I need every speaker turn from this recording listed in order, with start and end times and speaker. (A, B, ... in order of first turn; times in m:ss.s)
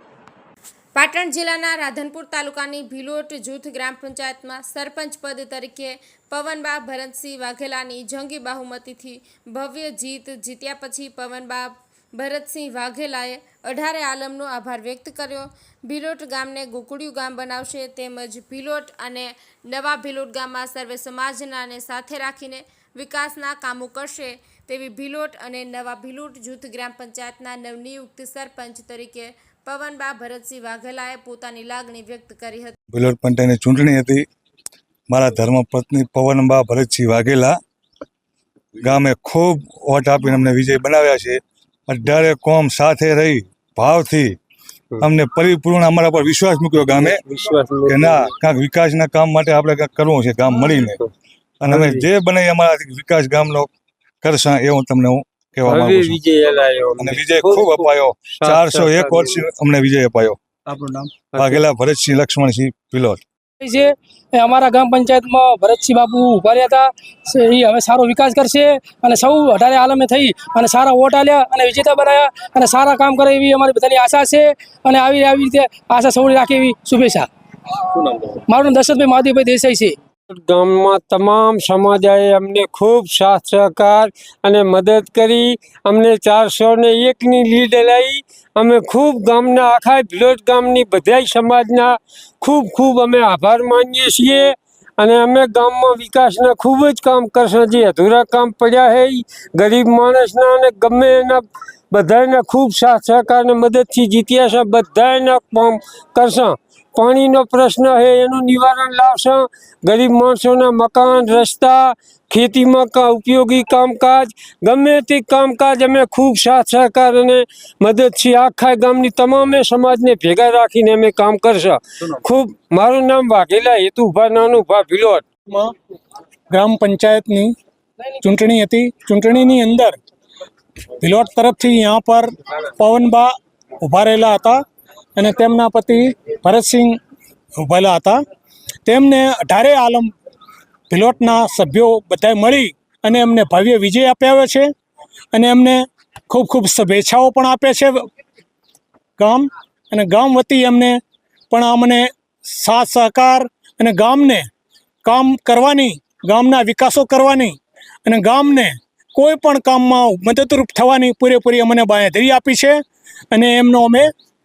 0:00.9-0:32.8 A
0:32.9-0:34.2 B
0:35.1-0:37.6 B
0:38.8-0:44.4 B
0:45.0-0:47.2 B
0:46.9-0:48.3 C
0:47.9-0:51.0 B
0:50.5-0:51.1 C
0:51.6-0:53.7 B
0:51.7-0:52.1 C
0:54.2-0:56.2 B
0:55.6-0:59.4 C
0:57.0-1:00.4 B
1:00.7-1:01.6 C
1:01.3-1:03.2 B
1:03.6-1:17.3 D
1:18.0-1:20.0 D
1:20.3-2:05.2 C
2:06.5-2:07.5 E
2:08.2-2:10.0 E
2:11.0-2:14.6 E
2:15.2-2:17.0 E
2:17.6-2:18.2 E
2:18.8-2:20.1 E
2:20.9-2:24.7 E
2:25.3-2:28.0 E
2:29.2-2:31.0 E
2:31.5-2:34.5 E
2:35.0-2:42.8 E
2:43.3-2:44.1 E